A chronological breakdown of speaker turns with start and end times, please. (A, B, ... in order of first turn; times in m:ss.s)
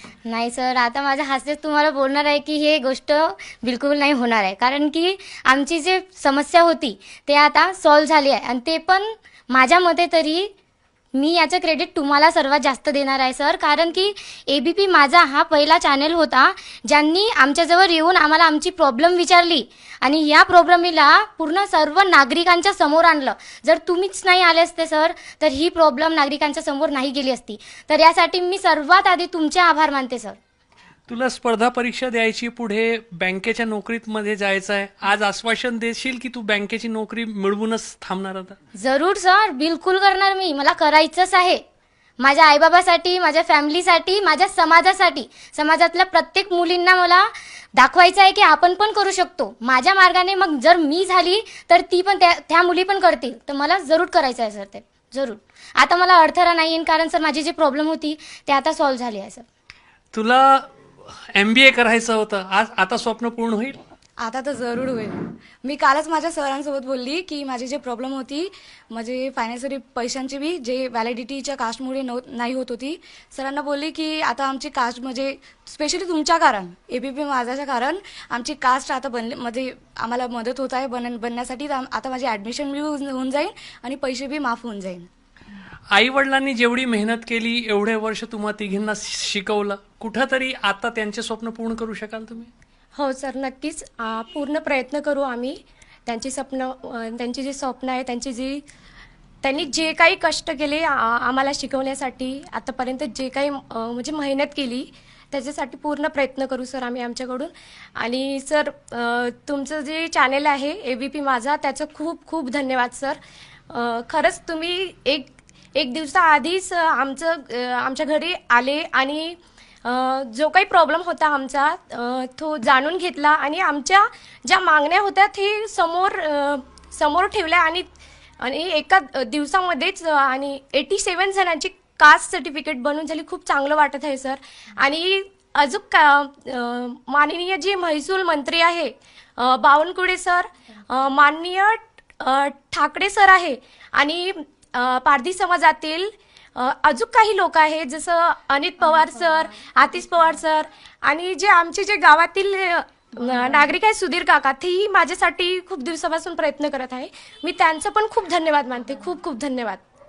0:00.2-0:10.5 A
0:11.2-0:30.4 A
0:31.1-0:38.6 B
0:38.8-0:41.6 A
0:42.2-0:59.4 A
1:00.1-1:00.7 B
1:01.3-1:03.8 B
1:04.2-1:25.1 C
1:25.9-1:32.5 B
1:32.9-1:38.6 D
1:39.4-1:53.2 D
1:53.7-2:07.9 D
2:08.4-2:39.8 D